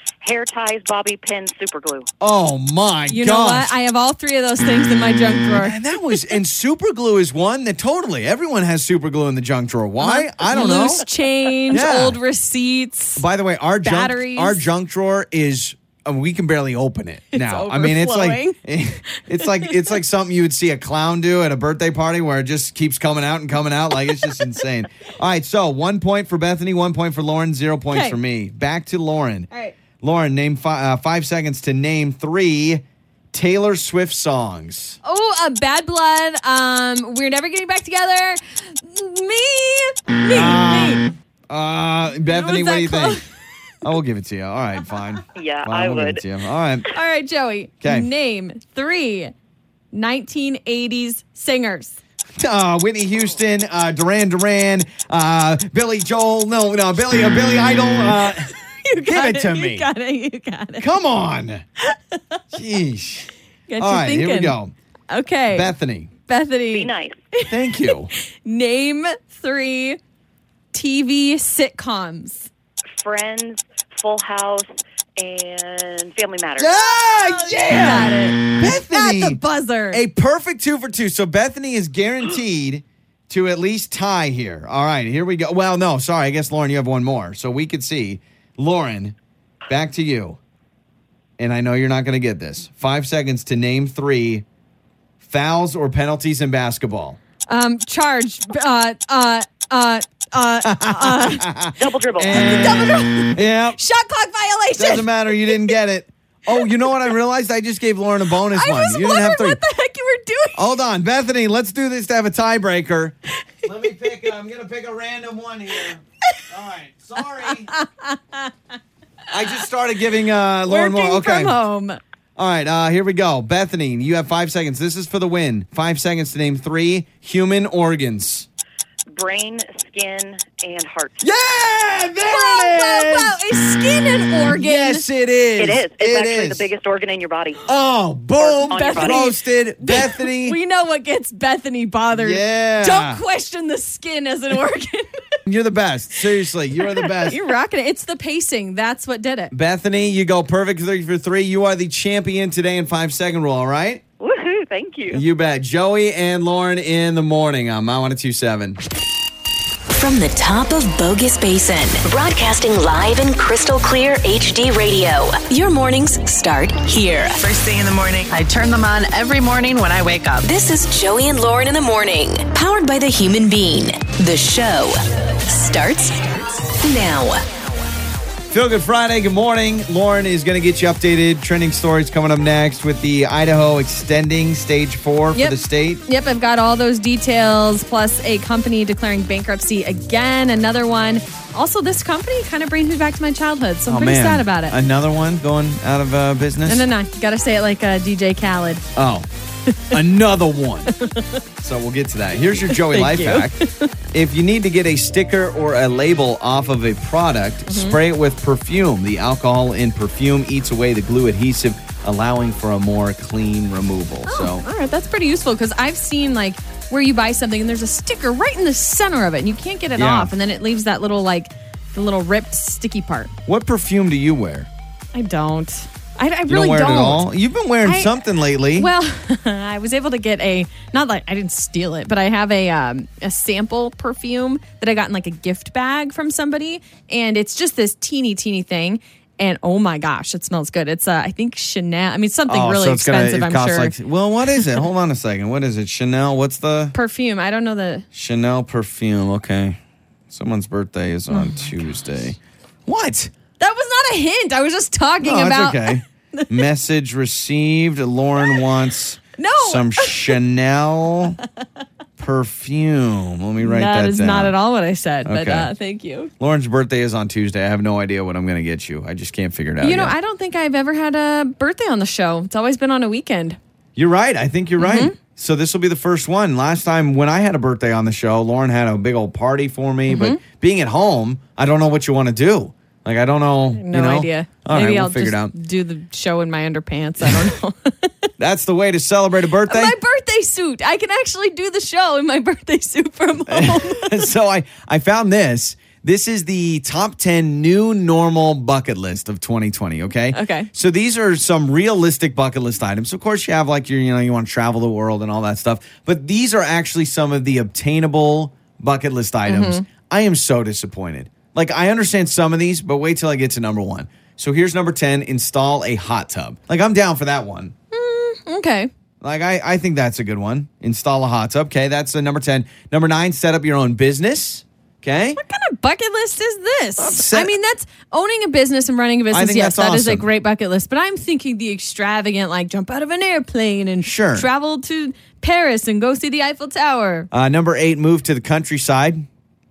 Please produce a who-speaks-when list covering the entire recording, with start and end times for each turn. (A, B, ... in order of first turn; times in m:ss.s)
0:00.2-0:02.1 A
0:02.2-0:03.8 B
0:03.1-0:05.8 C
0:05.6-0:11.0 B
0:10.0-0:13.2 C
0:11.7-0:12.2 B
0:13.2-0:29.5 B
0:13.8-0:14.6 C
0:17.3-0:18.6 C
0:19.4-0:20.0 C
0:27.9-0:28.2 C
0:29.5-0:29.8 C
0:30.0-0:35.0 B
0:35.0-0:41.1 C
0:40.3-0:43.2 B
0:42.3-0:43.2 C
0:43.8-0:46.9 B
0:45.4-0:46.2 A
0:46.9-0:49.3 C
0:47.8-0:48.1 B
0:49.9-0:52.0 C
0:52.4-0:59.9 B
0:58.4-1:00.9 C
1:00.8-1:01.6 B
1:01.8-1:02.4 C
1:02.5-1:03.3 B
1:03.7-1:04.6 C
1:03.8-1:04.7 B
1:05.1-1:05.7 C
1:05.5-1:06.1 B
1:06.3-1:10.0 C
1:06.7-1:07.2 A
1:07.5-1:08.1 B
1:10.7-1:12.5 C
1:13.0-1:16.9 A
1:16.6-1:29.2 B
1:17.1-1:20.0 C
1:29.7-1:30.4 B
1:31.4-1:34.4 B
1:35.2-1:37.2 B
1:37.5-1:41.6 C
1:40.6-1:43.8 B
1:41.8-1:42.9 A
1:42.3-1:45.7 C
1:44.8-1:49.6 B
1:46.5-1:47.0 C
1:48.5-1:50.7 C
1:50.6-1:57.7 B
1:57.7-1:58.5 C
1:59.3-2:01.6 B
2:00.7-2:02.0 C
2:02.4-2:08.5 B
2:09.1-2:11.3 A
2:11.2-2:13.4 B
2:12.2-2:15.0 C
2:14.4-2:16.7 B
2:15.6-2:17.6 A
2:17.7-2:20.6 B
2:18.4-2:19.4 A
2:18.6-2:25.1 C
2:22.1-2:23.2 B
2:25.5-2:27.4 B
2:27.2-2:29.5 C
2:29.5-2:34.0 B
2:34.2-2:35.2 A
2:35.1-2:38.8 B
2:39.9-2:47.4 D
2:47.4-2:50.5 E
2:50.4-2:56.2 D
2:56.8-2:57.4 D
2:58.5-3:06.0 B
3:05.4-3:14.8 C
3:13.9-3:16.9 B
3:16.7-3:18.9 C
3:19.0-3:19.3 B
3:19.7-3:20.0 C
3:19.9-3:20.9 B
3:21.0-3:21.4 C
3:21.6-3:23.6 B
3:22.7-3:23.9 C
3:24.1-3:34.6 B
3:27.7-3:28.0 C
3:34.3-3:43.3 C
3:40.0-3:40.3 B
3:43.5-3:44.7 B
3:45.1-3:47.3 C
3:46.5-3:48.9 B
3:47.8-3:48.1 C
3:48.8-4:04.0 C
4:02.5-4:07.0 B
4:06.9-4:08.1 C
4:08.1-4:09.8 B
4:10.3-4:13.3 B
4:11.3-4:11.7 C
4:13.6-4:16.6 C
4:15.2-4:21.4 B
4:19.4-4:20.4 C
4:22.2-4:24.6 B
4:23.6-4:26.3 C
4:25.2-4:25.7 B
4:26.4-4:30.2 B
4:29.8-4:33.6 C
4:34.0-4:45.6 B
4:34.8-4:35.2 C
4:40.1-4:40.4 C
4:43.8-4:48.3 C
4:47.2-4:47.5 B
4:48.4-4:50.0 B
4:49.7-4:54.3 C
4:53.5-5:17.7 B
5:00.3-5:00.7 C
5:09.5-5:09.8 C
5:17.9-5:18.9 C
5:19.2-5:25.4 B
5:25.4-5:37.3 C
5:27.0-5:27.5 B
5:29.3-5:30.3 B
5:34.0-5:34.5 B
5:37.3-5:39.3 B